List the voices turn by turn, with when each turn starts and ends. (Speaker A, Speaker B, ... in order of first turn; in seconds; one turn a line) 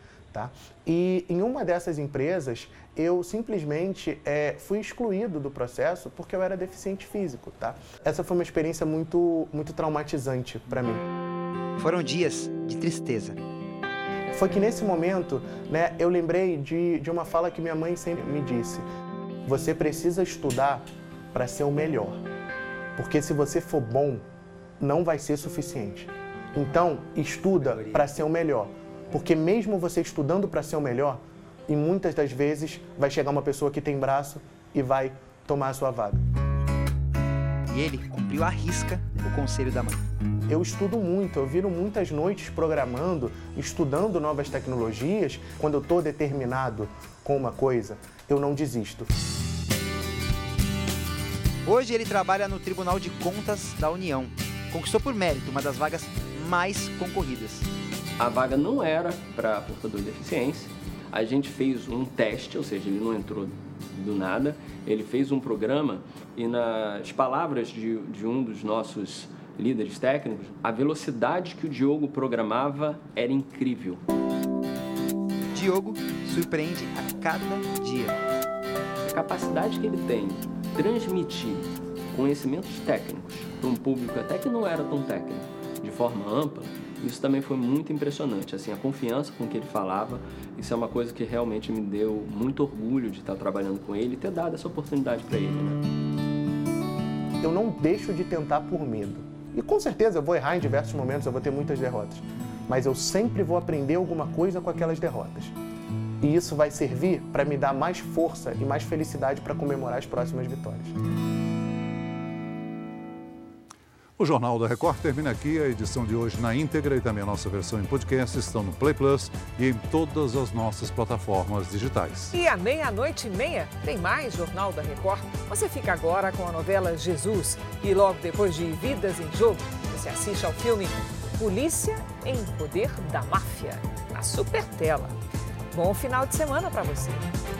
Speaker A: 0.3-11.0
Speaker B: 11.8-13.3
Speaker A: 14.3-18.8
Speaker A: 19.5-20.8
Speaker A: 21.3-22.2
Speaker A: 23.0-24.2
Speaker A: 24.8-36.2
Speaker B: 37.7-40.0
Speaker A: 40.5-49.1
Speaker B: 51.6-57.7
Speaker C: 58.2-74.0
Speaker B: 75.5-78.2
Speaker C: 79.1-81.6
Speaker C: 82.2-95.8
Speaker A: 97.4-105.5
Speaker A: 106.2-110.9
Speaker D: 114.2-122.3
Speaker E: 122.3-135.1
Speaker E: 135.7-137.3